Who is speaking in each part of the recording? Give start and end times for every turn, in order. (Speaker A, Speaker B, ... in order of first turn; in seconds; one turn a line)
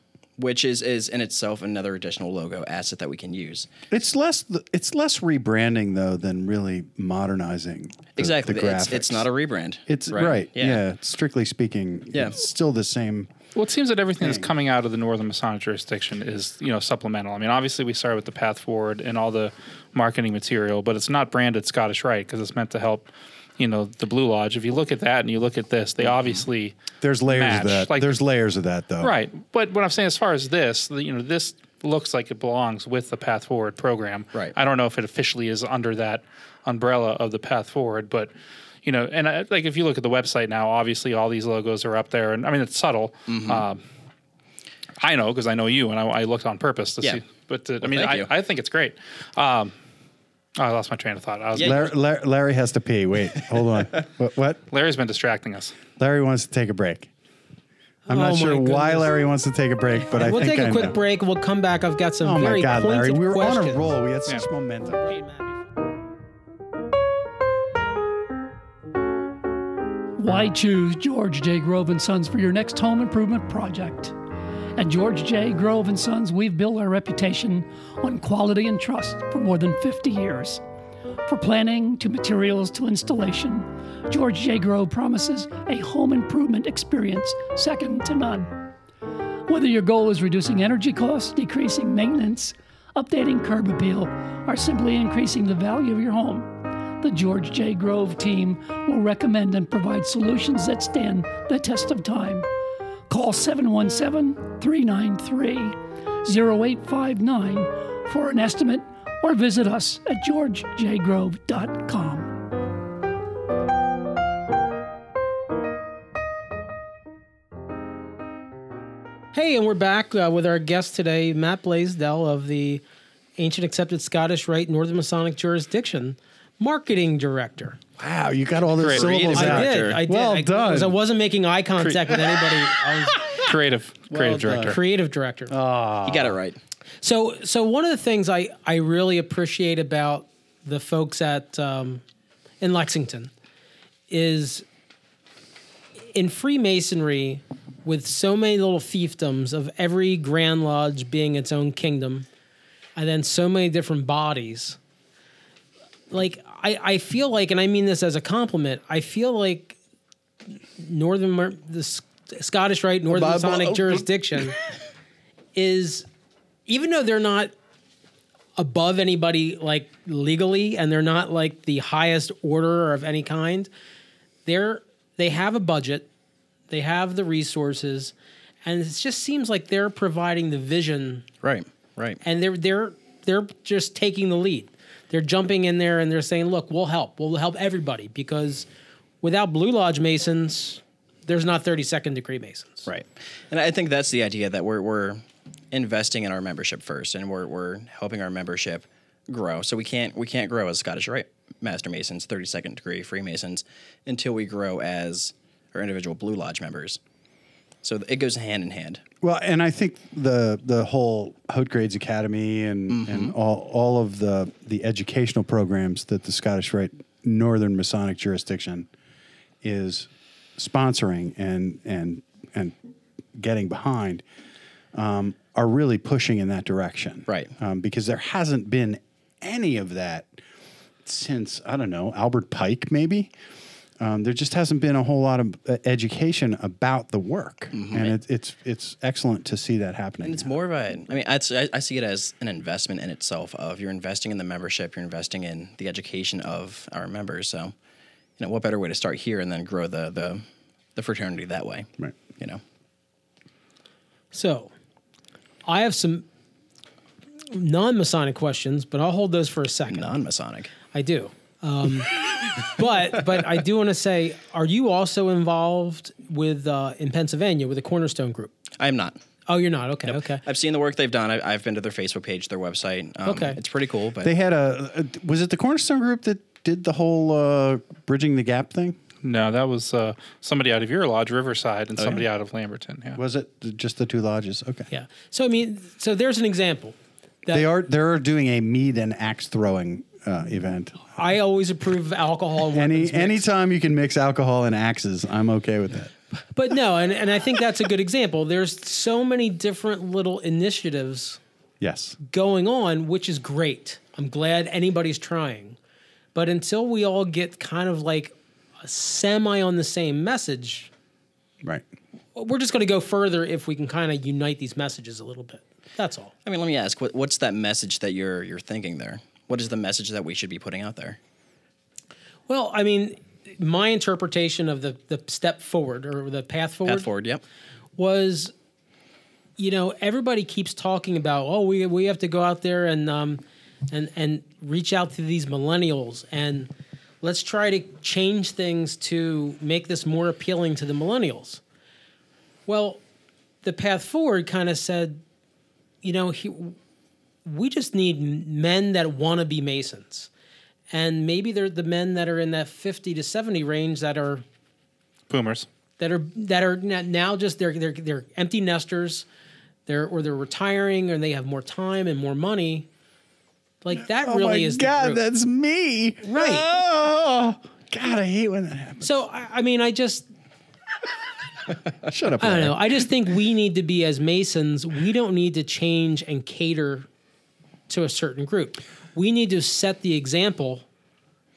Speaker A: 0.4-3.7
Speaker B: 3.9-9.2
Speaker A: 8.2-10.8
Speaker B: 9.9-13.3
Speaker C: 13.5-26.7
Speaker B: 14.2-14.5
Speaker A: 26.1-26.4
Speaker B: 27.0-29.1
Speaker C: 27.3-28.2
Speaker C: 29.0-38.3
Speaker C: 38.8-43.8
Speaker A: 43.3-43.6
Speaker C: 45.0-49.7
Speaker A: 47.0-47.3
Speaker A: 47.8-48.3
Speaker C: 50.6-51.9
Speaker A: 51.5-51.9
Speaker B: 51.6-54.6
Speaker C: 54.7-55.7
Speaker B: 56.0-57.1
Speaker D: 58.1-59.1
Speaker B: 58.1-61.0
Speaker D: 60.1-63.9
Speaker B: 62.2-65.1
Speaker D: 65.0-65.5
Speaker E: 70.2-74.1
Speaker E: 74.8-80.6
Speaker E: 81.2-88.5
Speaker E: 89.5-96.5
Speaker E: 97.0-102.5
Speaker E: 103.1-112.3
Speaker D: 119.3-122.8
Speaker D: 123.4-127.8
Speaker B: 128.0-131.0
Speaker C: 128.8-129.1
Speaker A: 128.8-130.0
Speaker D: 129.3-133.2
Speaker C: 133.4-134.8
Speaker B: 134.1-134.8
Speaker D: 134.5-135.5
Speaker B: 135.5-136.4
Speaker A: 136.0-136.6
Speaker D: 137.0-142.0
Speaker D: 142.6-143.3
Speaker D: 144.1-144.7
Speaker D: 146.1-152.3
Speaker D: 152.9-154.8
Speaker D: 156.1-159.8
Speaker D: 160.8-164.5
Speaker B: 163.1-164.1
Speaker D: 165.5-166.1
Speaker D: 166.7-167.5
Speaker D: 168.6-173.7
Speaker D: 174.4-176.1
Speaker D: 176.7-178.1
Speaker D: 178.6-181.2
Speaker A: 181.4-182.2
Speaker D: 182.2-188.7
Speaker D: 189.2-192.9
Speaker A: 192.8-207.0
Speaker A: 207.8-209.0
Speaker B: 209.2-218.9
Speaker A: 212.9-213.3
Speaker B: 219.6-222.8
Speaker B: 223.3-224.2
Speaker B: 224.9-230.4
Speaker B: 231.0-233.3
Speaker B: 234.0-240.5
Speaker A: 237.7-238.2
Speaker A: 240.2-247.7
Speaker A: 248.4-250.4
Speaker A: 250.9-252.6
Speaker D: 254.3-254.7
Speaker D: 255.7-256.2
Speaker D: 257.5-260.1
Speaker A: 259.9-260.7
Speaker D: 260.9-268.5
Speaker A: 268.8-269.2
Speaker D: 269.5-270.4
Speaker A: 270.1-274.3
Speaker D: 273.2-273.6
Speaker B: 274.2-279.0
Speaker C: 279.2-283.2
Speaker B: 283.1-284.9
Speaker D: 284.9-287.7
Speaker B: 287.5-291.1
Speaker D: 291.1-293.4
Speaker B: 292.7-296.1
Speaker D: 296.5-301.4
Speaker B: 301.8-302.2
Speaker D: 302.2-305.8
Speaker D: 306.3-310.9
Speaker D: 312.3-316.3
Speaker A: 316.4-321.2
Speaker D: 322.5-327.1
Speaker A: 326.9-327.4
Speaker D: 328.0-328.5
Speaker D: 329.6-336.7
Speaker D: 337.2-341.6
Speaker D: 342.7-343.0
Speaker D: 343.6-345.2
Speaker D: 346.0-346.8
Speaker D: 347.4-350.3
Speaker D: 350.9-354.4
Speaker C: 355.3-355.7
Speaker D: 356.0-359.2
Speaker D: 359.9-362.9
Speaker D: 363.8-365.2
Speaker B: 363.9-369.1
Speaker D: 366.2-366.6
Speaker D: 369.0-370.3
Speaker B: 372.0-373.1
Speaker D: 372.4-377.1
Speaker D: 377.9-380.8